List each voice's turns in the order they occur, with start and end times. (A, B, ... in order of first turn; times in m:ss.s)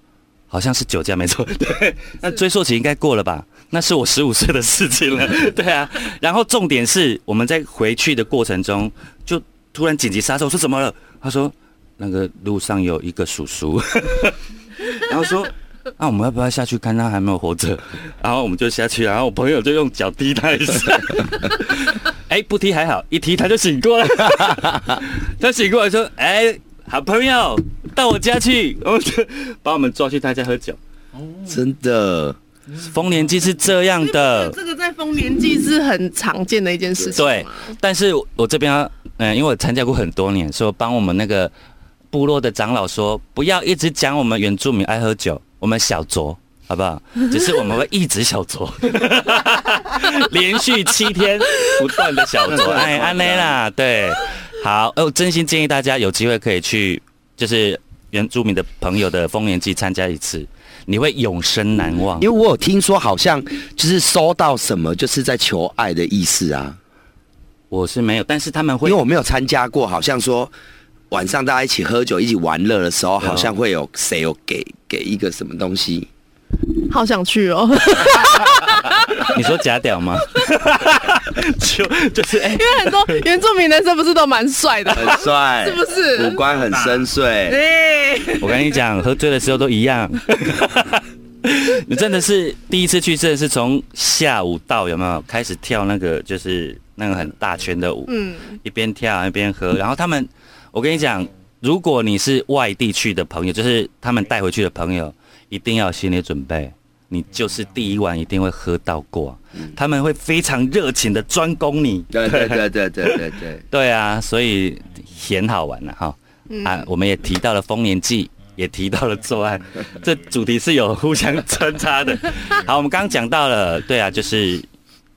0:00.5-0:30.8 A
0:24.7-0:25.0 B
0:31.4-0:32.4 B
0:32.8-0:34.6 A
0:34.0-0:37.8 C
0:37.1-0:41.5 A
0:42.1-1:02.3 A
0:52.5-0:53.6 B
1:02.2-1:06.8 B
1:07.7-1:09.0 A
1:08.8-1:10.5 B
1:11.1-1:16.1 B
1:13.2-1:13.5 A
1:16.9-1:19.3 C
1:19.2-1:23.2 A
1:22.5-1:26.4 C
1:24.9-1:27.6 B
1:27.5-1:28.7 C
1:28.4-2:04.6 A
1:38.1-1:38.6 C
1:52.1-1:53.6 B
1:56.5-1:56.8 C